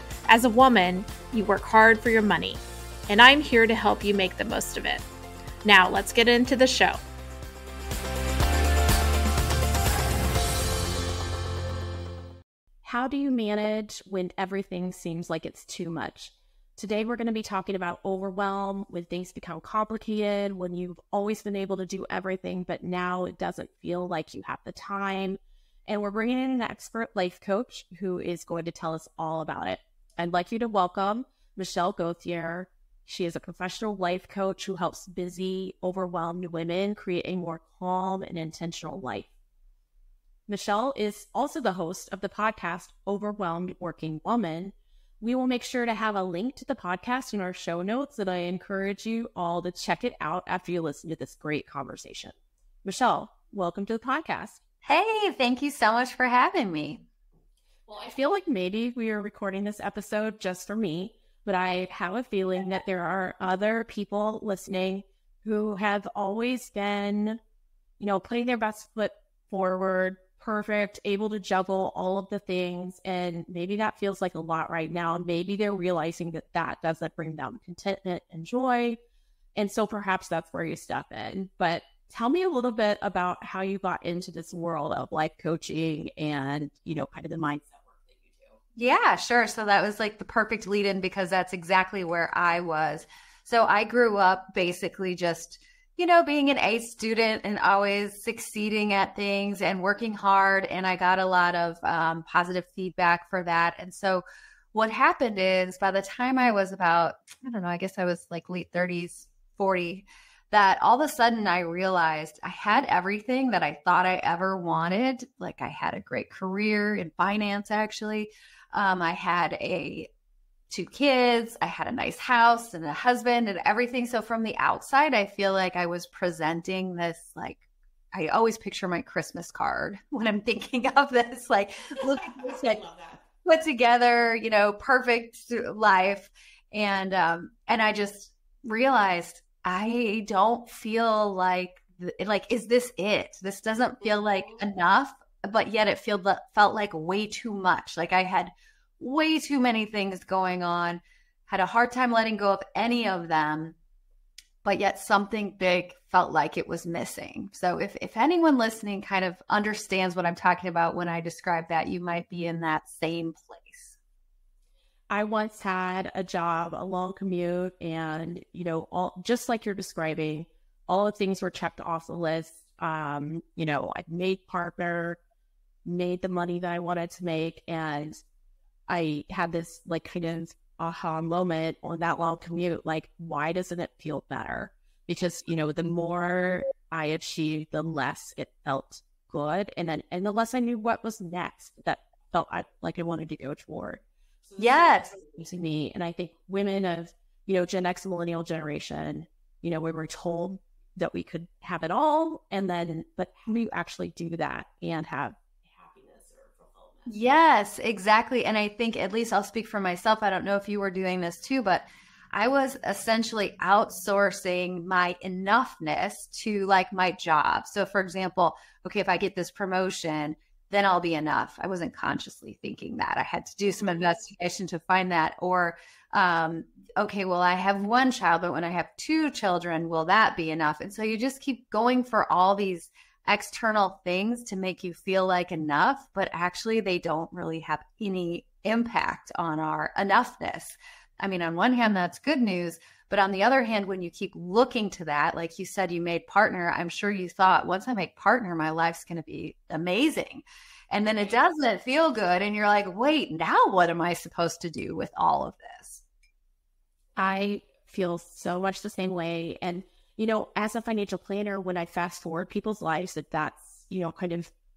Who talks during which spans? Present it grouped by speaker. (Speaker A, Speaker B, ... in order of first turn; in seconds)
Speaker A: 0.3-5.1, 5.6-7.0
Speaker B: 12.8-39.3, 40.5-54.6, 57.9-67.4, 68.0-79.0, 79.6-88.6, 132.0-133.3, 144.0-144.6, 165.1-175.2, 175.8-178.2, 178.9-207.2, 257.2-264.5
Speaker C: 54.9-57.0, 88.8-120.1, 120.7-132.8, 133.4-153.8, 154.6-164.0, 194.6-195.2, 207.1-256.0